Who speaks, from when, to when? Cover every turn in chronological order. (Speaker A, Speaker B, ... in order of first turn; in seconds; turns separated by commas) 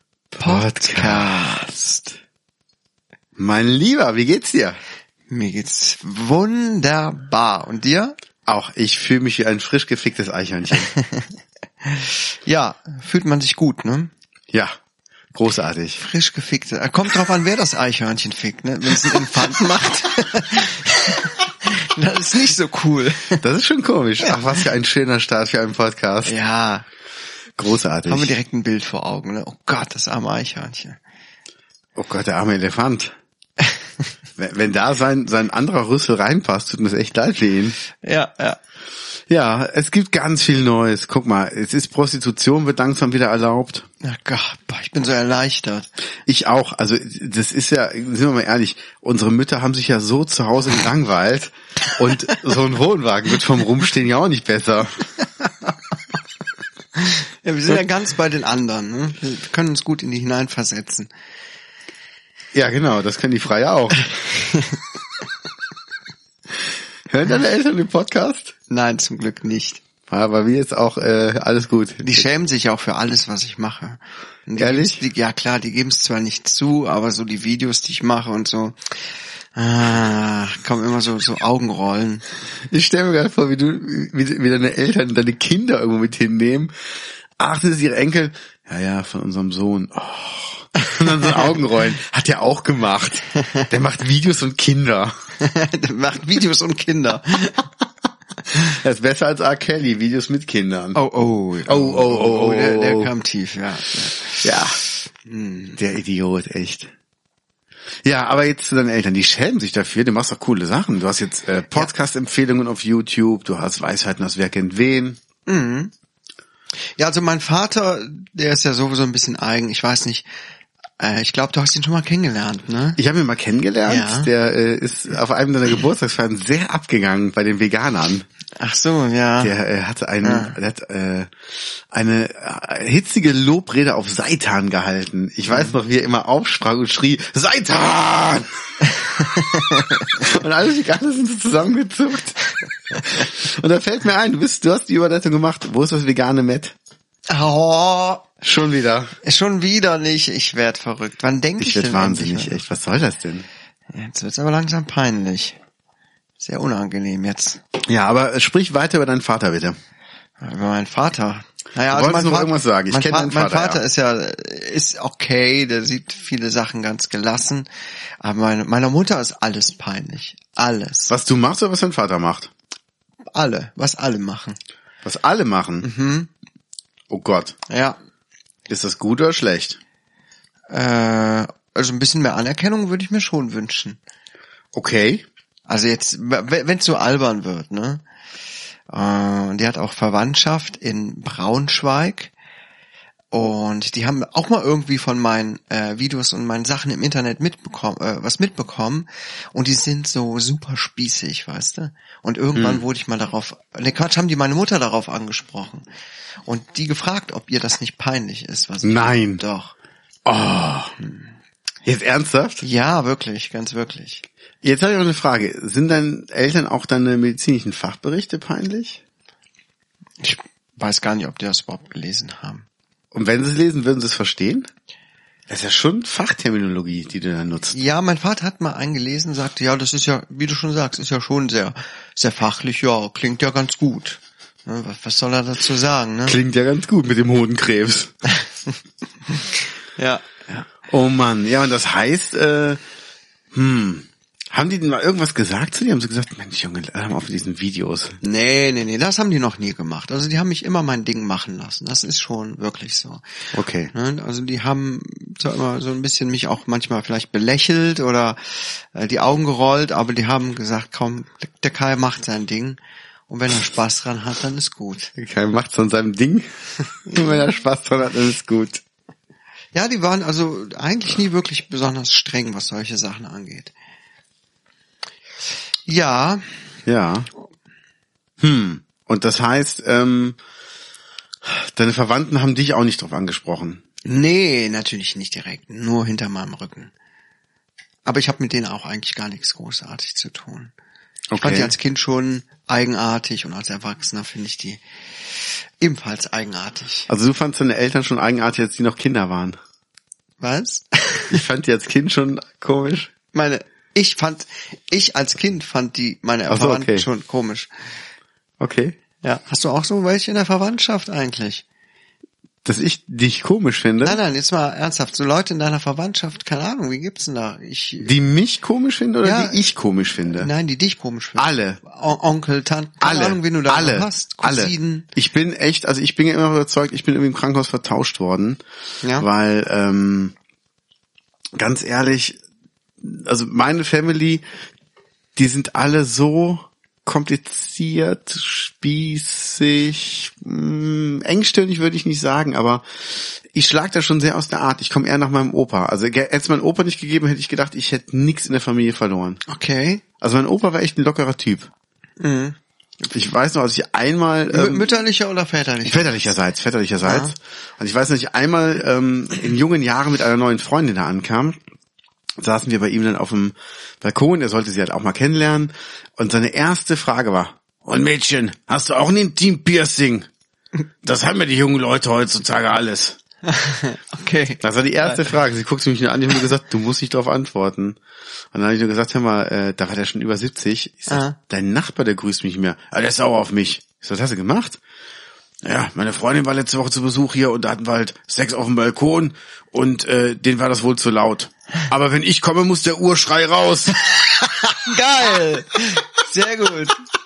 Speaker A: 0.3-1.6, Speaker B: 0.4-2.1, Speaker A: 3.4-4.8, Speaker B: 5.3-8.2, Speaker A: 8.5-10.9, Speaker B: 10.9-11.3, Speaker B: 11.8-14.1, Speaker A: 15.3-16.0, Speaker B: 16.0-23.4, Speaker A: 23.4-26.3, Speaker B: 26.2-26.9, Speaker A: 27.6-28.3, Speaker B: 28.1-31.0, Speaker A: 31.9-33.1, Speaker A: 34.4-37.8, Speaker B: 38.0-38.6, Speaker A: 39.3-43.9, Speaker B: 44.0-45.9, Speaker A: 46.2-55.1, Speaker B: 57.0-61.1, Speaker A: 62.5-64.1, Speaker B: 64.2-64.8, Speaker A: 67.1-68.5, Speaker B: 68.7-69.8, Speaker A: 70.1-72.2, Speaker B: 72.0-79.0, Speaker A: 74.6-75.0, Speaker B: 79.5-82.2, Speaker A: 82.7-86.7, Speaker A: 87.4-95.1, Speaker B: 90.8-91.2, Speaker B: 95.4-97.7, Speaker A: 98.5-101.0, Speaker B: 100.9-104.5, Speaker A: 101.7-103.1, Speaker A: 104.4-104.8, Speaker B: 105.2-105.8, Speaker A: 105.8-106.9, Speaker A: 108.0-115.2, Speaker B: 115.5-115.9, Speaker B: 117.0-120.2, Speaker B: 121.0-123.0, Speaker A: 123.0-128.2, Speaker B: 123.9-124.3, Speaker B: 128.6-129.5, Speaker A: 129.4-146.7, Speaker B: 130.2-130.5, Speaker B: 135.5-135.7, Speaker B: 139.6-139.9, Speaker B: 147.3-148.3, Speaker A: 148.4-149.2, Speaker B: 149.2-152.7, Speaker A: 151.6-153.5, Speaker B: 153.9-155.6, Speaker B: 156.4-157.6, Speaker A: 157.8-159.8, Speaker B: 160.4-167.7, Speaker A: 161.9-163.8, Speaker B: 168.2-171.1, Speaker A: 171.1-172.5, Speaker B: 173.3-174.6, Speaker A: 175.0-175.9, Speaker B: 175.8-176.3, Speaker A: 177.1-177.6, Speaker B: 177.7-178.0, Speaker A: 178.7-179.8, Speaker B: 180.7-184.0, Speaker A: 184.7-185.2, Speaker B: 185.7-188.0, Speaker B: 188.9-192.3, Speaker B: 193.3-205.8, Speaker A: 202.5-202.8, Speaker B: 206.4-209.7, Speaker A: 208.8-209.4, Speaker A: 210.2-210.9, Speaker A: 211.8-212.6, Speaker B: 212.6-214.2, Speaker A: 214.6-219.0, Speaker B: 220.2-222.7, Speaker A: 223.1-224.7, Speaker A: 225.5-227.8, Speaker B: 227.7-236.4, Speaker A: 236.2-238.1, Speaker B: 239.9-240.7, Speaker A: 240.9-242.8, Speaker A: 243.5-248.2, Speaker B: 248.2-265.1, Speaker A: 253.5-253.9, Speaker A: 265.2-268.8, Speaker B: 269.7-273.7, Speaker B: 275.9-276.6, Speaker A: 276.9-277.3, Speaker A: 278.4-280.4, Speaker A: 281.4-283.8, Speaker B: 284.0-286.9, Speaker B: 288.1-290.7, Speaker A: 291.3-291.7, Speaker B: 291.4-297.1, Speaker A: 297.1-299.6, Speaker B: 300.4-301.4, Speaker A: 301.3-303.1, Speaker B: 303.3-307.7, Speaker A: 306.5-307.1, Speaker A: 308.6-309.0, Speaker B: 309.2-311.6, Speaker A: 312.6-314.2, Speaker B: 314.0-318.1, Speaker A: 318.0-320.5, Speaker B: 319.2-319.6, Speaker B: 320.2-325.1, Speaker A: 321.4-321.8, Speaker A: 323.0-328.6, Speaker B: 329.0-329.3, Speaker A: 329.1-330.3, Speaker A: 331.6-332.4, Speaker A: 333.0-334.4, Speaker A: 335.4-349.4, Speaker B: 349.5-350.0, Speaker A: 350.2-351.7, Speaker B: 352.2-353.2, Speaker A: 353.1-354.9, Speaker B: 354.5-356.1, Speaker A: 355.8-361.6, Speaker B: 357.0-357.3, Speaker A: 362.4-370.3, Speaker A: 371.0-373.2, Speaker B: 373.4-375.3, Speaker A: 374.6-378.0, Speaker A: 378.5-384.8, Speaker B: 381.1-381.4, Speaker A: 385.6-394.0, Speaker B: 394.4-397.0